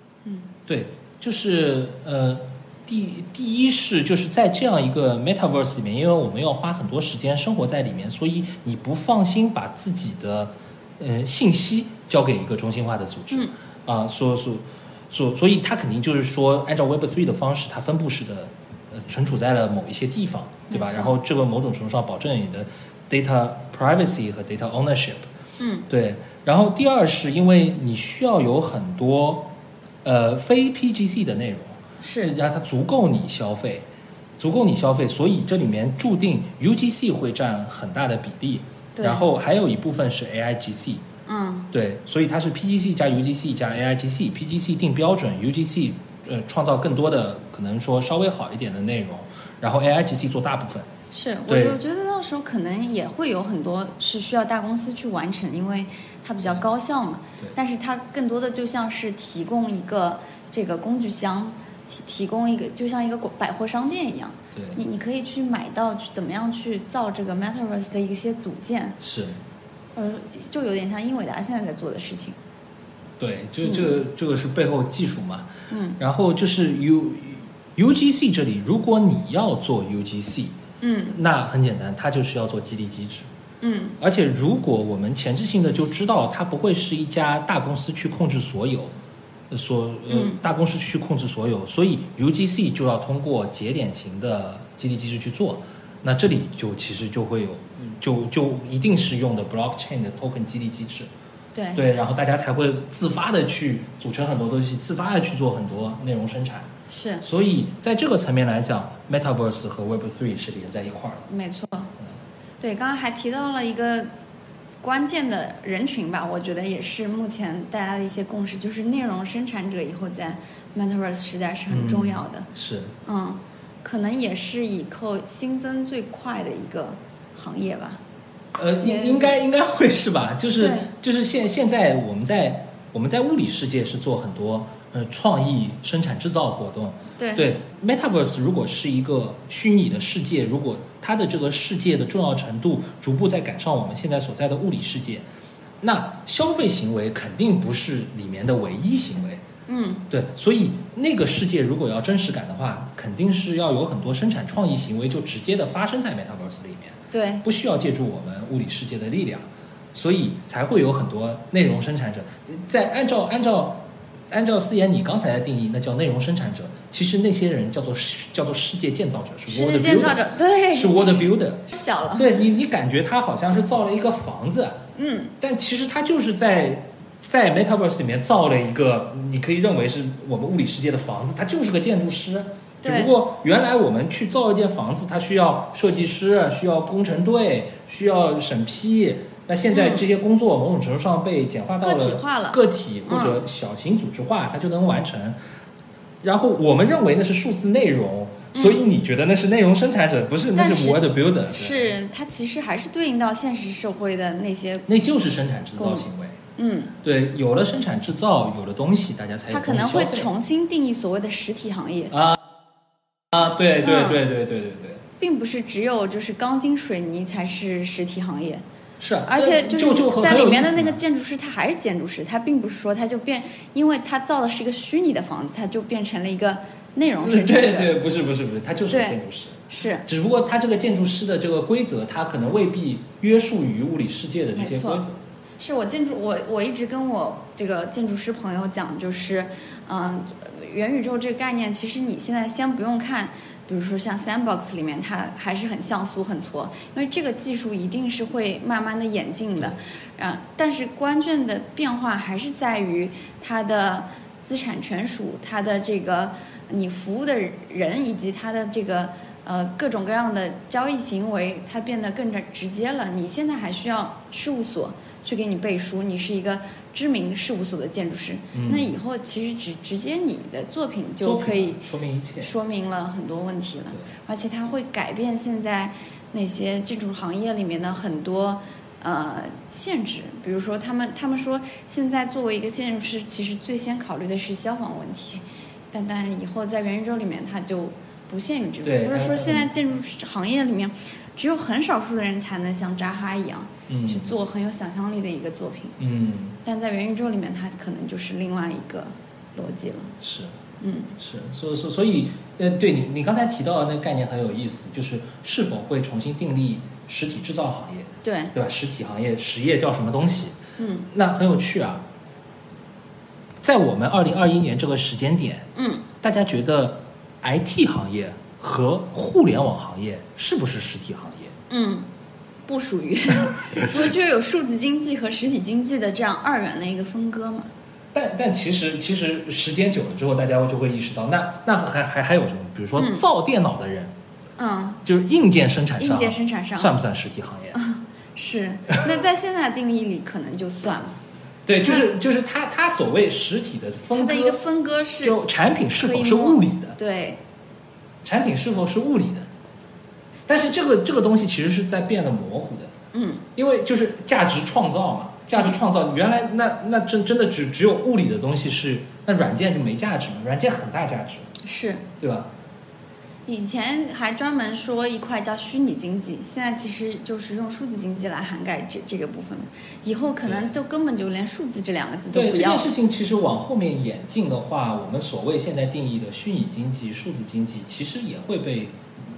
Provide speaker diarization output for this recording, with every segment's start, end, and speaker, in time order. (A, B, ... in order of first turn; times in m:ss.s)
0:00.2-0:00.5 A
0:00.7-0:25.3 B
0:20.7-0:21.1 A
0:25.6-0:25.9 A
0:25.9-0:29.5 B
0:30.0-0:33.8 B
0:32.0-0:32.3 A
0:34.4-0:41.0 B
0:39.0-0:39.2 A
0:41.2-0:41.7 A
0:41.7-0:50.9 B
0:51.1-1:09.0 A
0:51.5-0:51.8 B
1:04.5-1:04.8 B
1:09.0-1:09.4 B
1:09.9-1:12.4 A
1:13.2-1:20.6 B
1:13.6-1:13.9 A
1:15.7-1:16.0 A
1:20.8-1:21.2 A
1:21.1-1:23.3 B
1:23.6-1:24.0 A
1:24.0-1:28.9 B
1:29.5-1:41.1 B
1:30.1-1:30.4 A
1:41.5-1:41.8 A
1:41.7-1:46.7 B
1:46.9-1:47.2 A
1:47.2-1:51.3 B
1:51.3-1:51.9 A
1:52.6-1:54.1 A
1:54.8-2:02.5 A
2:01.7-2:02.9 B
2:03.0-2:08.0 A
2:08.5-2:25.2 B
2:08.8-2:09.4 A
2:10.6-2:10.9 A
2:17.2-2:17.4 A
2:25.8-2:29.4 B
2:29.7-2:30.0 A
2:30.1-2:54.8 B
2:37.1-2:37.4 A
2:49.5-2:52.3 A
2:54.9-2:55.3 A
2:55.4-3:15.4 B
3:02.8-3:03.1 A
3:09.7-3:10.0 A
3:11.8-3:13.4 A
3:16.2-3:21.9 B
3:18.5-3:18.8 A
3:20.5-3:24.9 A
3:24.9-3:26.4 B
3:25.8-3:26.0 A
3:26.6-3:26.9 A
3:27.0-3:30.3 B
3:29.5-3:32.1 A
3:32.1-3:32.4 B
3:33.3-3:35.0 B
3:33.8-3:34.2 A
3:35.2-3:38.6 A
3:39.0-3:41.0 B
3:39.2-3:47.9 A
3:47.2-3:55.2 B
3:48.9-3:49.2 A
3:49.7-3:50.0 A
3:54.5-3:55.0 A
3:55.6-4:31.8 A
4:28.5-4:28.9 B
4:31.2-4:32.5 B
4:32.4-4:56.0 A
4:48.8-4:49.7 B
4:53.9-4:54.3 B
4:56.0-4:56.6 B
4:56.6-5:00.2 A
5:00.2-5:00.5 B
5:00.8-5:01.1 A
5:01.2-5:10.6 B
5:08.2-5:08.5 A
5:10.8-5:11.1 A
5:11.1-5:12.0 B
5:13.6-5:15.7 B
5:15.8-5:16.0 A
5:16.2-5:21.5 B
5:21.7-5:22.1 A
5:22.6-5:27.7 A
5:28.1-5:34.1 B
5:33.0-5:33.2 A
5:34.6-5:35.0 A
5:35.0-5:37.8 B
5:36.0-5:36.9 A
5:37.7-5:41.2 A
5:41.6-5:44.6 B
5:44.1-5:45.4 A
5:45.2-5:47.0 B
5:46.0-5:47.4 A
5:48.2-5:49.5 B
5:50.5-5:52.9 B
5:53.1-5:53.4 A
5:53.5-6:01.5 B
6:01.6-6:02.0 A
6:02.2-6:02.5 B
6:03.4-6:12.9 A
6:10.4-6:10.7 B
6:12.3-6:19.0 B